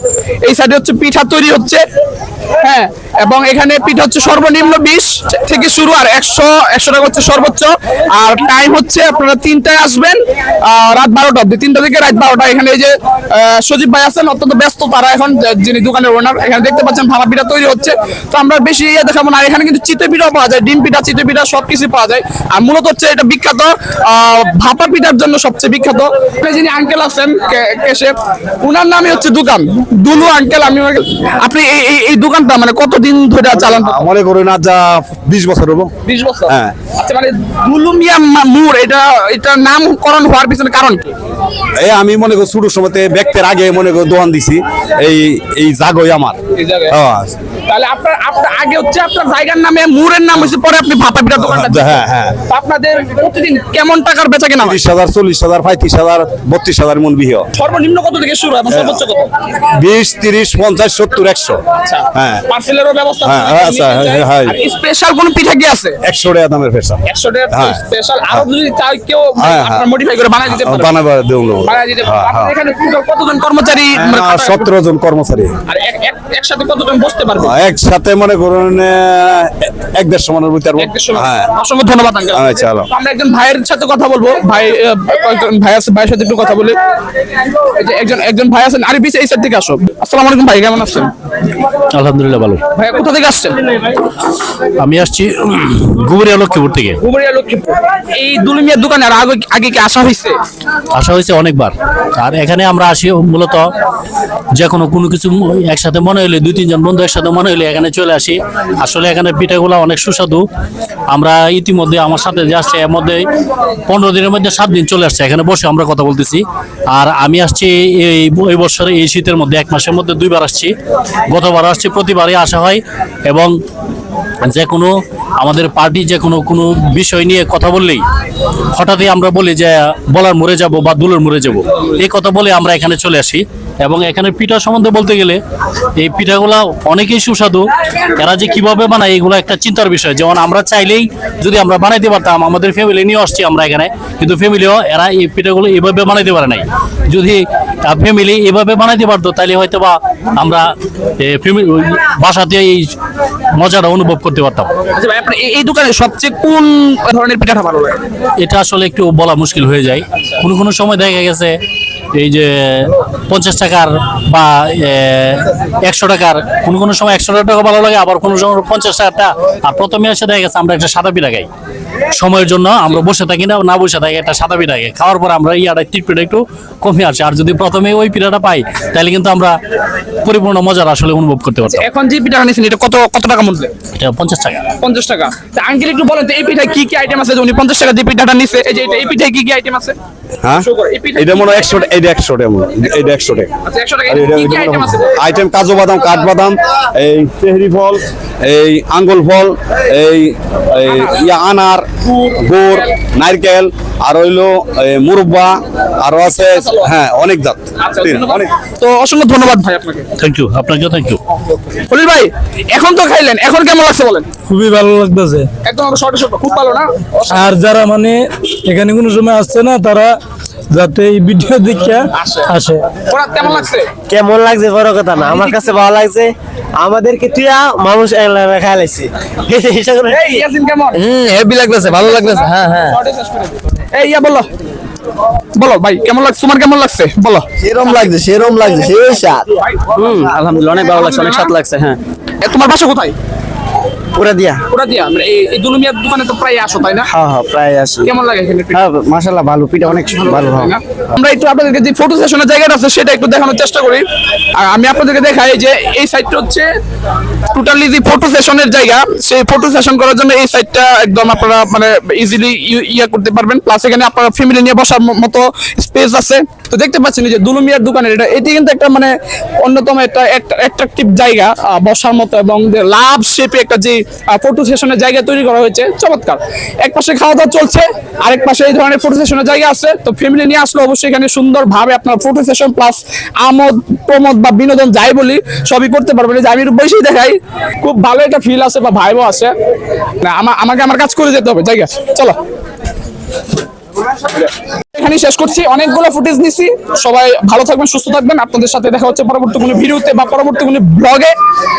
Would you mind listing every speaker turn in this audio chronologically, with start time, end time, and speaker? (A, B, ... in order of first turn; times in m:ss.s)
0:00.4-0:01.8 A
0:02.6-0:34.1 A
0:33.5-0:35.9 B
0:36.0-0:41.1 A
0:36.5-0:36.8 B
0:41.8-0:47.4 B
0:46.5-0:47.0 A
0:47.7-0:54.8 A
0:51.4-0:52.4 B
0:54.6-0:57.5 B
0:57.6-0:59.4 A
0:58.7-0:59.0 B
0:59.6-1:01.6 B
1:01.8-1:06.0 A
1:02.1-1:02.5 B
1:03.2-1:04.6 B
1:06.0-1:08.5 B
1:07.0-1:10.9 A
1:09.4-1:09.9 B
1:10.5-1:12.5 B
1:11.6-1:14.7 A
1:14.0-1:15.5 B
1:15.7-1:17.6 A
1:17.4-1:21.5 B
1:20.8-1:26.8 A
1:22.3-1:22.9 B
1:27.7-1:31.1 A
1:31.9-1:32.6 C
1:32.8-1:33.6 A
1:34.8-1:37.0 C
1:37.0-1:40.4 A
1:40.9-1:43.7 C
1:44.6-1:50.4 C
1:51.1-1:53.2 C
1:53.9-2:00.7 C
2:01.3-2:03.5 C
2:04.4-2:08.0 C
2:08.7-2:15.4 C
2:16.0-2:30.7 C
2:31.2-2:32.9 C
2:33.6-2:34.7 C
2:35.0-2:38.0 A
2:38.4-2:41.5 C
2:42.1-2:51.5 C
2:52.1-2:59.5 C
3:00.2-3:01.9 C
3:01.7-3:03.7 A
3:04.0-3:04.6 C
3:04.8-3:10.0 A
3:10.6-3:11.8 A
3:11.2-3:13.5 B
3:13.6-3:15.2 A
3:14.1-3:28.5 B
3:20.9-3:21.2 A
3:26.6-3:26.9 A
3:27.8-3:30.1 A
3:30.2-3:31.2 C
3:31.8-3:34.3 A
3:34.5-3:35.5 D
3:35.6-3:37.5 A
3:37.3-3:40.2 D
3:40.7-3:42.9 D
3:42.1-3:43.9 A
3:44.1-3:50.4 E
3:50.1-3:51.1 A
3:51.1-3:52.6 E
3:51.7-3:54.5 A
3:55.6-3:58.1 A
3:57.6-3:59.4 E
3:59.6-3:59.9 A
4:00.0-4:02.0 E
4:00.8-4:01.6 A
4:02.4-4:03.2 A
4:04.2-4:04.6 E
4:04.7-4:07.1 A
4:07.1-4:08.1 E
4:08.0-4:08.9 A
4:08.7-4:10.7 E
4:09.9-4:14.0 A
4:14.6-4:16.7 A
4:17.5-4:49.5 A
4:50.2-4:52.4 A
4:54.2-5:01.4 A